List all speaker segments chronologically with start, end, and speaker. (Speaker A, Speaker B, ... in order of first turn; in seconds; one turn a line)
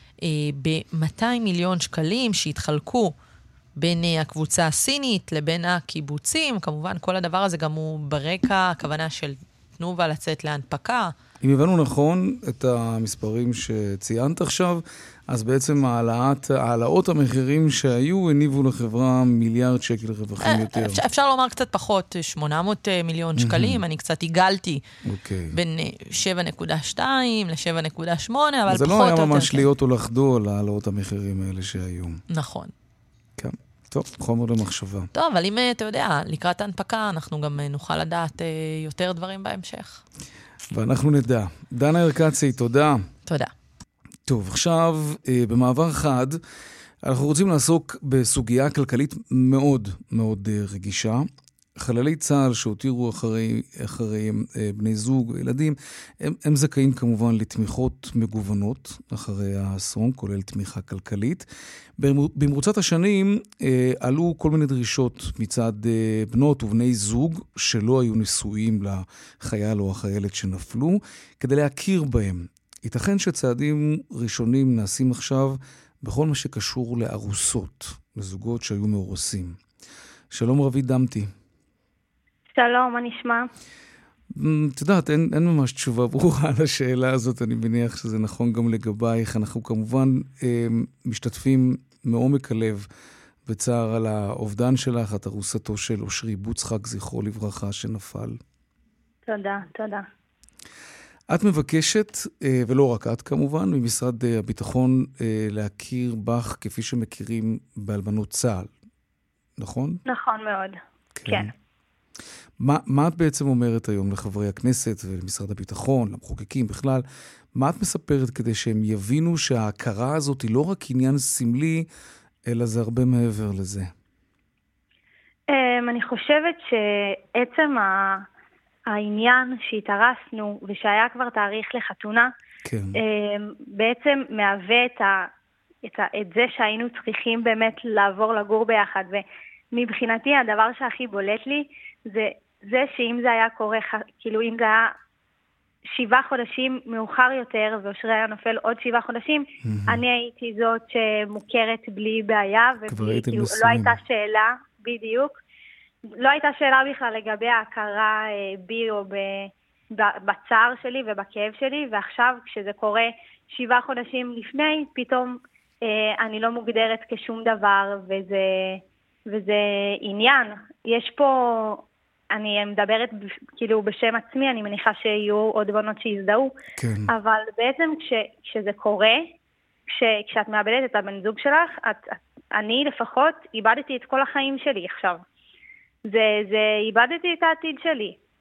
Speaker A: 0.2-3.1
Speaker A: 3.8-11.1
Speaker B: 11.4-21.0
Speaker A: 20.4-24.8
Speaker B: 23.4-23.8
Speaker B: 25.0-25.6
Speaker A: 25.5-29.6
Speaker B: 28.7-32.2
Speaker A: 32.3-32.7
Speaker B: 33.4-35.1
Speaker A: 35.1-40.0
Speaker B: 40.7-43.0
Speaker A: 43.3-43.5
Speaker B: 44.3-46.4
Speaker B: 47.0-51.3
Speaker B: 51.8-61.5
Speaker B: 62.0-79.6
Speaker B: 80.3-81.3
Speaker C: 82.5-83.5
Speaker B: 84.3-92.8
Speaker B: 93.5-98.4
Speaker C: 99.3-100.0
Speaker B: 101.3-108.7
Speaker B: 109.6-110.0
Speaker C: 110.0-111.5
Speaker B: 111.2-111.5
Speaker B: 112.6-117.0
Speaker B: 117.5-121.9
Speaker B: 122.5-123.9
Speaker C: 125.5-128.2
Speaker C: 128.9-132.3
Speaker B: 132.7-133.0
Speaker C: 132.9-135.3
Speaker C: 135.8-144.9
Speaker C: 145.9-155.4
Speaker B: 149.6-150.0
Speaker B: 152.9-154.0
Speaker C: 156.2-176.5
Speaker B: 176.8-177.1
Speaker C: 177.1-179.3
Speaker C: 179.9-185.2
Speaker C: 186.1-188.2